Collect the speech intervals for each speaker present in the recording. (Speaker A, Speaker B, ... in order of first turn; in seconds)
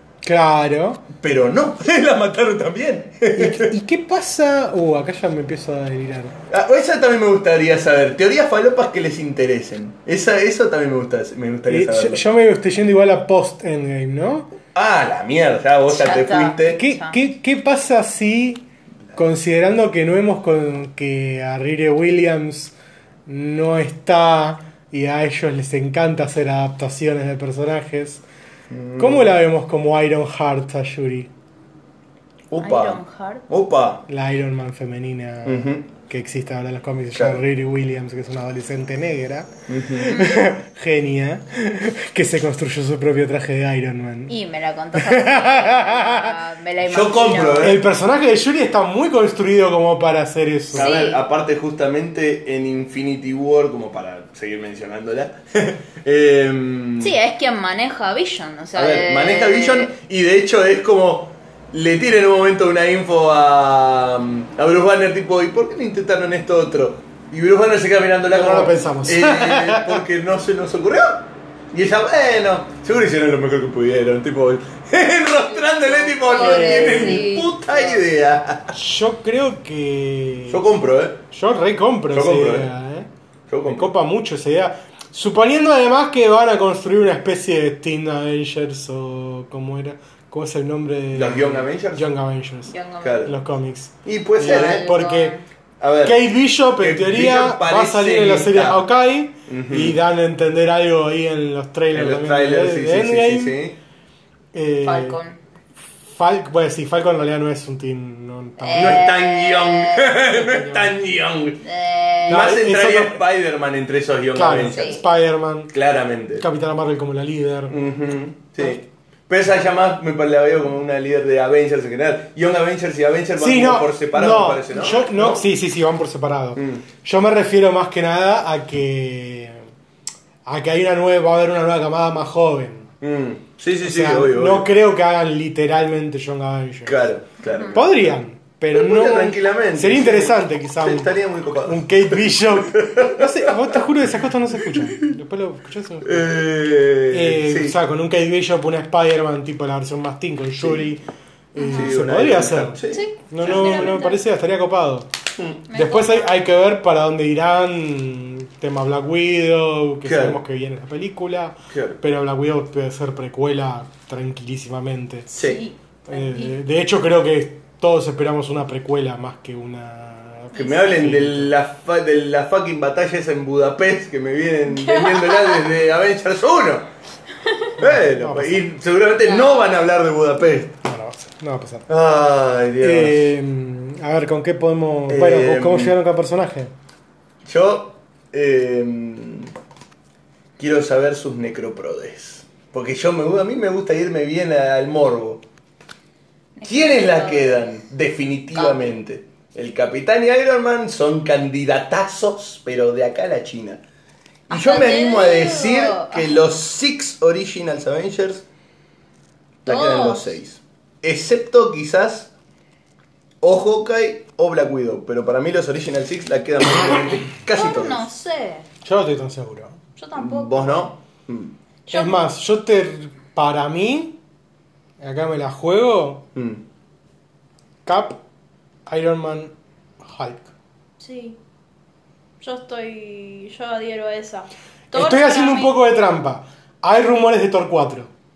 Speaker A: 0.2-1.0, 3.3-6.3, 11.7-14.5, 16.8-22.7, 23.3-28.2, 29.0-31.3, 34.1-44.4, 44.9-46.4, 47.6-50.9, 68.3-70.0, 76.4-77.3, 78.7-80.6, 81.3-83.1, 83.7-95.4, 96.0-103.6, 104.5-105.2, 106.1-109.1, 110.2-110.9, 112.3-113.2, 114.3-115.7, 116.4-117.8, 123.4-129.7, 130.5-132.9, 133.8-137.1, 137.7-146.3, 147.1-151.0, 151.6-152.8, 153.3-155.1, 155.7-165.3, 166.1-171.5, 177.8-178.7, 180.8-181.9, 182.8-186.7, 218.8-219.8, 221.9-224.2, 225.0-226.3, 227.8-228.2, 228.9-230.5, 234.9-238.1
Speaker B: 1.2-3.7, 6.5-12.2, 14.7-16.8, 28.7-29.3, 32.5-34.0, 35.5-35.9, 37.1-37.4, 39.7-40.2, 46.8-47.8, 50.7-57.2, 58.8-78.8, 80.5-81.2, 82.1-82.7, 83.5-83.9, 91.1-92.1, 93.0-93.4, 94.0-94.9, 95.8-96.2, 96.8-98.8, 99.5-100.0, 101.9-103.8, 108.7-111.6, 112.3-115.0, 115.7-116.5, 117.7-125.4, 126.6-126.8, 133.0-134.7, 136.8-138.1, 138.7-145.1, 146.0-147.8, 151.6-153.9, 160.0-160.4, 161.7-162.0, 165.3-165.6, 170.5-176.9, 177.8-180.8, 181.9-183.3, 185.1-186.0, 187.4-189.5, 190.6-195.4, 196.7-203.8, 204.5-208.4, 209.7-212.3, 213.4-218.1, 220.2-221.5, 226.3-226.6
Speaker C: 15.9-17.2, 32.6-33.5, 40.1-40.4, 44.3-47.8, 50.7-51.2, 57.0-59.9, 75.5-78.0, 92.7-93.3, 94.4-95.4, 104.8-105.4, 108.6-110.2, 111.6-112.5, 114.6-115.0, 137.5-137.8, 151.6-151.9, 152.9-154.2, 155.7-156.4, 165.3-166.6, 170.5-170.9, 174.7-175.7, 179.2-179.7, 196.6-197.7, 198.6-199.0, 204.5-206.4, 209.7-210.3, 217.6-218.7, 220.0-220.9, 221.9-222.2, 231.0-231.4, 232.4-235.8